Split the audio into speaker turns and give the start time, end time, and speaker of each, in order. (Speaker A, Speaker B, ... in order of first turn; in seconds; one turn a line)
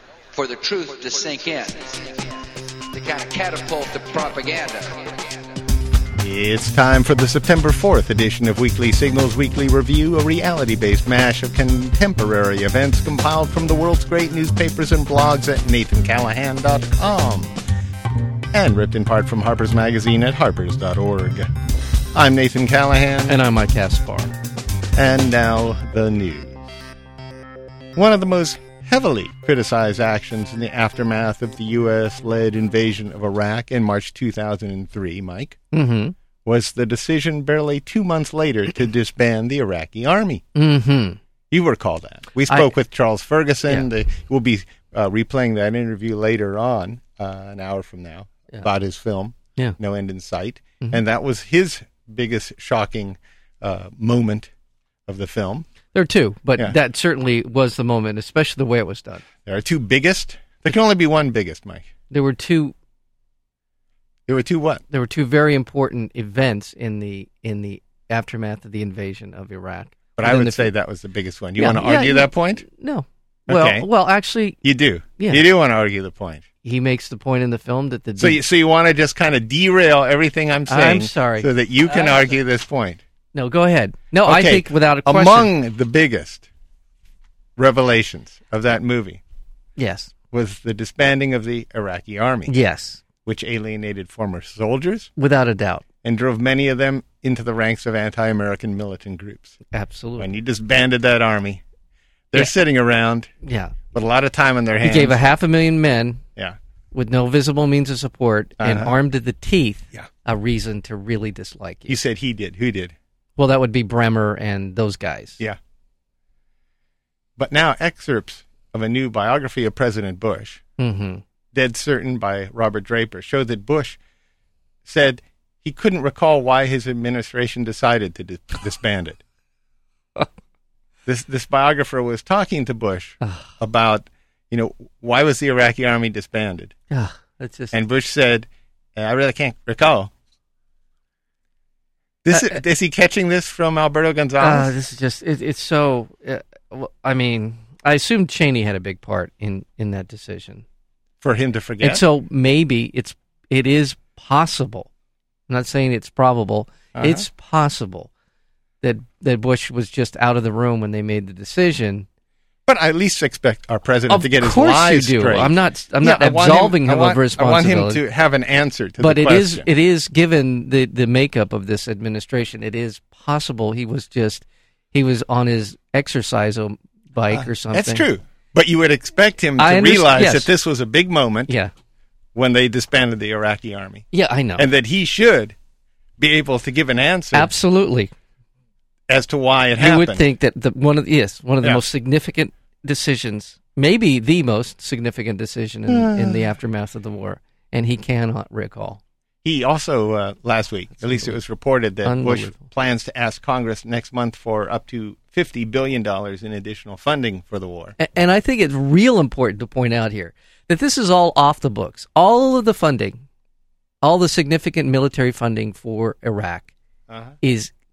Speaker A: 0.3-2.3
Speaker A: 2.9-5.4
Speaker B: 6.2-17.5
Speaker B: 18.5-21.5
Speaker B: 22.1-23.4
Speaker C: 23.3-24.3
Speaker B: 24.9-26.7
Speaker B: 27.9-35.6
Speaker C: 35.7-36.1
Speaker B: 36.4-40.4
Speaker C: 40.5-41.2
Speaker B: 41.5-54.5
Speaker B: 55.1-55.7
Speaker C: 55.9-59.2
Speaker B: 59.4-61.9
Speaker C: 62.1-62.7
Speaker B: 64.3-64.8
Speaker C: 64.9-70.7
Speaker B: 70.2-72.6
Speaker C: 71.6-74.6
Speaker B: 73.5-73.9
Speaker B: 74.6-76.4
Speaker C: 75.2-75.4
Speaker C: 76.6-78.4
Speaker B: 78.2-83.0
Speaker C: 80.7-82.4
Speaker C: 83.3-85.5
Speaker B: 84.2-86.5
Speaker B: 87.6-89.2
Speaker C: 89.8-90.1
Speaker B: 90.3-92.5
Speaker C: 92.5-93.0
Speaker B: 93.2-95.1
Speaker C: 95.2-95.8
Speaker B: 96.0-99.6
Speaker C: 99.7-100.3
Speaker B: 100.2-101.6
Speaker B: 102.3-103.3
Speaker C: 103.4-103.8
Speaker B: 103.9-105.2
Speaker C: 104.8-106.2
Speaker C: 106.9-112.0
Speaker B: 108.6-108.9
Speaker B: 111.9-112.9
Speaker C: 113.4-115.4
Speaker B: 117.4-120.6
Speaker C: 120.8-121.2
Speaker B: 121.5-124.0
Speaker B: 124.8-129.2
Speaker B: 131.1-136.7
Speaker C: 133.2-133.5
Speaker C: 136.9-137.8
Speaker B: 137.7-140.1
Speaker B: 142.2-144.7
Speaker C: 144.4-150.6
Speaker B: 151.2-152.0
Speaker C: 151.8-154.9
Speaker C: 155.5-158.1
Speaker B: 156.9-157.2
Speaker C: 158.8-162.1
Speaker B: 162.7-169.7
Speaker C: 164.1-168.0
Speaker C: 169.0-178.1
Speaker B: 177.3-181.5
Speaker C: 179.6-180.5
Speaker B: 182.3-185.5
Speaker C: 184.1-184.7
Speaker B: 186.2-187.5
Speaker C: 187.3-188.1
Speaker B: 189.1-190.2
Speaker C: 189.8-199.0
Speaker B: 195.9-196.4
Speaker B: 199.4-207.9
Speaker C: 202.0-202.6
Speaker C: 208.0-213.2
Speaker C: 214.0-216.7
Speaker B: 217.1-217.3
Speaker C: 217.4-217.7